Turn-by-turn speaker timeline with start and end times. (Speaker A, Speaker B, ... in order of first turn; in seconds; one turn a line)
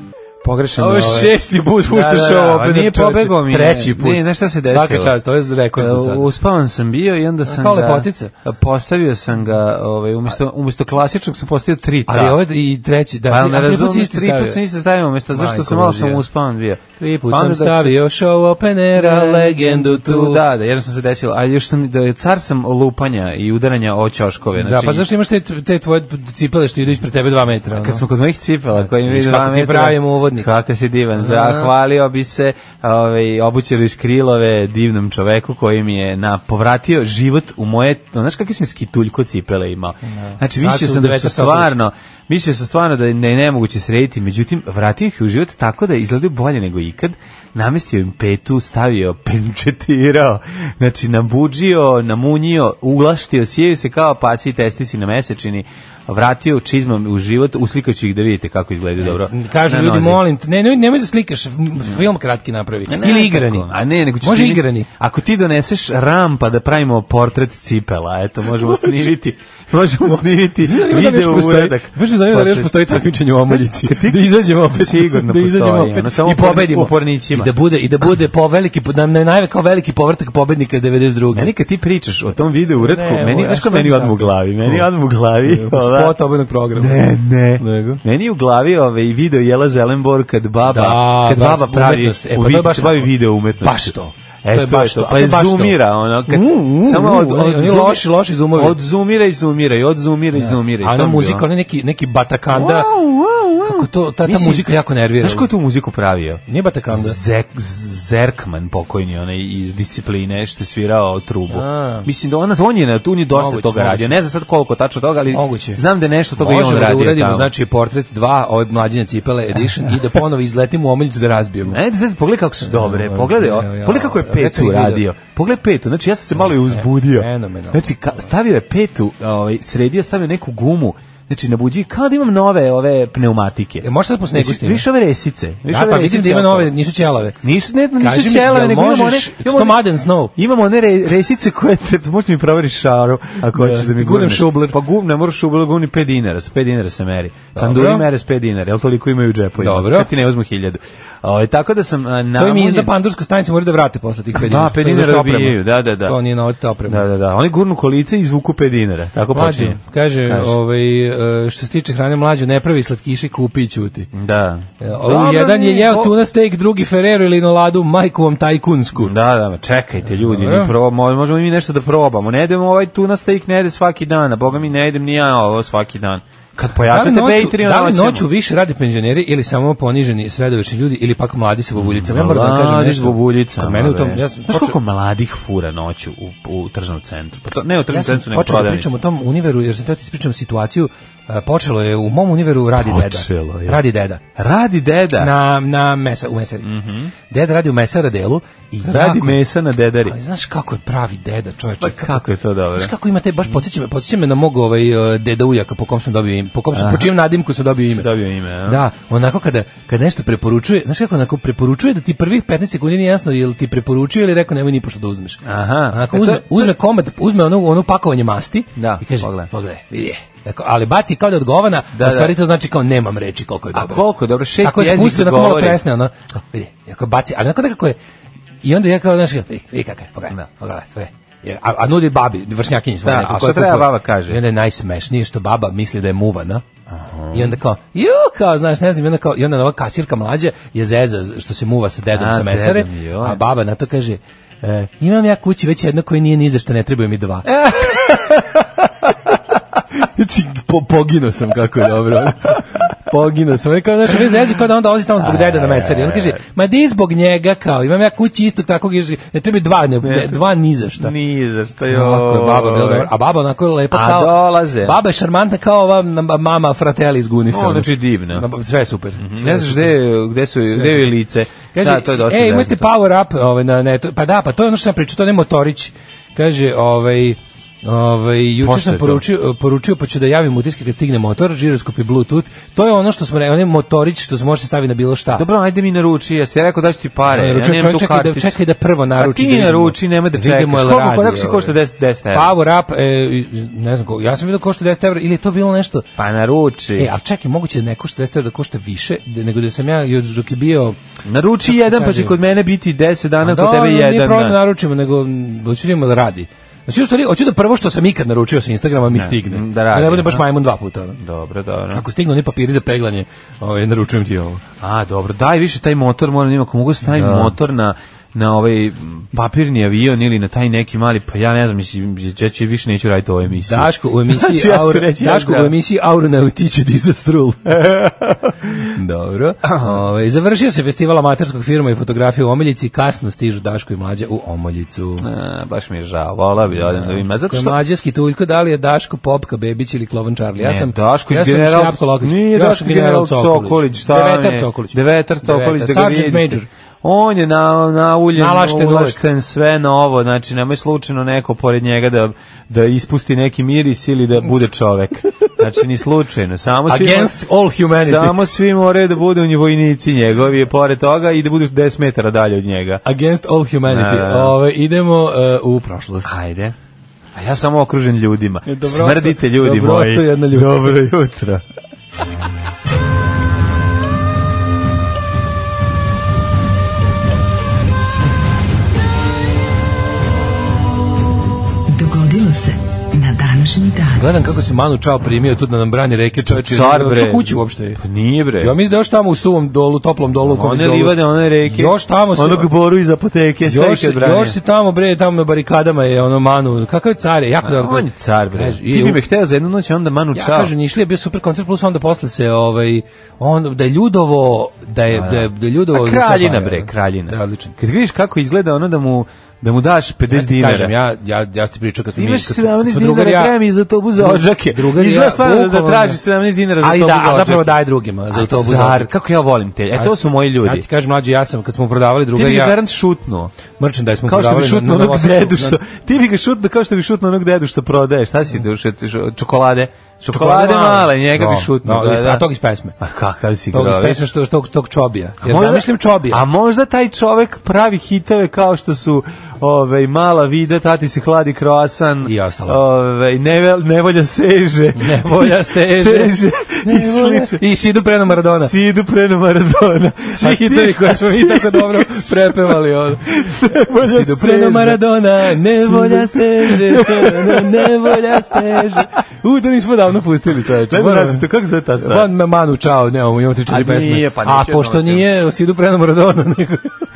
Speaker A: 0.4-5.2
Speaker B: 0.8-6.3
Speaker A: 5.7-12.4
Speaker B: 7.5-8.3
Speaker B: 12.1-14.6
Speaker A: 13.3-18.0
Speaker B: 15.3-16.2
Speaker B: 17.0-20.4
Speaker A: 18.9-25.1
Speaker B: 24.6-28.0
Speaker A: 27.7-60.2
Speaker B: 28.8-30.5
Speaker B: 31.2-31.7
Speaker B: 40.1-41.8
Speaker B: 59.0-64.9
Speaker A: 62.9-77.5
Speaker B: 70.1-81.5
Speaker A: 81.3-86.2
Speaker B: 82.8-84.9
Speaker B: 85.4-88.0
Speaker A: 86.8-101.5
Speaker B: 90.7-98.8
Speaker B: 100.3-102.9
Speaker A: 102.5-117.5
Speaker B: 103.6-105.5
Speaker B: 106.5-107.2
Speaker B: 111.5-112.1
Speaker B: 113.3-114.2
Speaker B: 115.3-115.8
Speaker B: 116.4-121.8
Speaker A: 121.7-136.7
Speaker B: 122.6-125.0
Speaker B: 126.3-128.3
Speaker B: 133.8-134.9
Speaker B: 135.7-137.4
Speaker A: 137.4-152.9
Speaker B: 138.0-140.3
Speaker B: 143.5-144.8
Speaker B: 147.6-148.1
Speaker B: 149.6-150.1
Speaker B: 152.4-157.1
Speaker A: 154.3-156.2
Speaker A: 156.9-160.6
Speaker B: 159.3-164.1
Speaker A: 164.1-166.2
Speaker B: 164.8-169.1
Speaker A: 169.0-178.3
Speaker B: 170.1-170.7
Speaker B: 176.9-184.8
Speaker A: 181.8-188.9
Speaker B: 187.9-194.2
Speaker A: 192.8-193.8
Speaker A: 194.3-195.3
Speaker B: 195.2-196.7
Speaker A: 196.6-197.1
Speaker B: 197.3-199.4
Speaker A: 198.8-200.2
Speaker B: 200.1-202.2
Speaker A: 201.8-202.9
Speaker B: 202.8-208.1
Speaker A: 206.7-207.2
Speaker A: 207.9-208.8
Speaker B: 208.7-224.0
Speaker A: 215.4-216.7
Speaker A: 218.8-219.5
Speaker A: 221.9-222.4
Speaker A: 223.7-225.8
Speaker B: 224.6-228.0
Speaker B: 228.6-236.6
Speaker A: 233.0-234.4
Speaker A: 236.9-237.6
Speaker B: 237.3-248.5
Speaker A: 242.1-243.4
Speaker A: 247.4-248.5
Speaker B: 250.0-261.1
Speaker A: 255.2-256.4
Speaker A: 260.0-260.4
Speaker A: 261.0-263.1
Speaker B: 261.9-270.0
Speaker A: 263.9-265.0
Speaker A: 267.5-268.5
Speaker A: 269.2-272.9
Speaker B: 270.7-271.1
Speaker B: 271.7-285.4
Speaker A: 278.6-279.2
Speaker A: 285.4-288.6
Speaker B: 287.3-291.8
Speaker A: 289.2-292.5
Speaker B: 292.3-296.1
Speaker A: 296.2-297.1
Speaker B: 297.0-301.0
Speaker A: 301.2-304.6
Speaker B: 301.6-302.4
Speaker B: 303.4-311.2
Speaker A: 309.1-310.4
Speaker A: 311.2-312.0
Speaker B: 311.9-314.6
Speaker A: 314.8-325.8
Speaker B: 317.1-317.6
Speaker B: 323.6-327.9
Speaker A: 327.7-328.8
Speaker B: 328.8-335.3
Speaker A: 329.6-330.0
Speaker A: 335.2-337.8
Speaker B: 336.7-346.7
Speaker A: 340.6-363.0
Speaker B: 348.4-349.2
Speaker B: 356.9-358.5
Speaker B: 363.1-366.3
Speaker A: 363.9-364.6
Speaker A: 366.2-366.8
Speaker A: 367.4-371.6
Speaker B: 368.7-371.0
Speaker C: 381.9-384.3
Speaker B: 384.1-388.0
Speaker A: 386.5-388.8
Speaker B: 388.6-392.7
Speaker A: 390.4-394.6
Speaker B: 393.6-399.2
Speaker A: 397.6-400.7
Speaker B: 400.3-407.8
Speaker A: 405.1-410.9
Speaker B: 410.3-413.6
Speaker A: 412.2-420.9
Speaker B: 414.2-416.2
Speaker B: 416.8-419.1
Speaker B: 419.9-422.8
Speaker A: 422.3-423.5
Speaker B: 423.8-425.8
Speaker A: 424.2-432.5
Speaker B: 430.3-433.0
Speaker A: 433.0-434.3
Speaker B: 433.7-436.4
Speaker A: 435.4-447.6
Speaker B: 442.2-442.8
Speaker B: 444.9-448.7
Speaker A: 448.4-459.1
Speaker B: 450.3-461.5
Speaker A: 460.9-462.3
Speaker B: 462.0-467.0
Speaker A: 463.7-465.3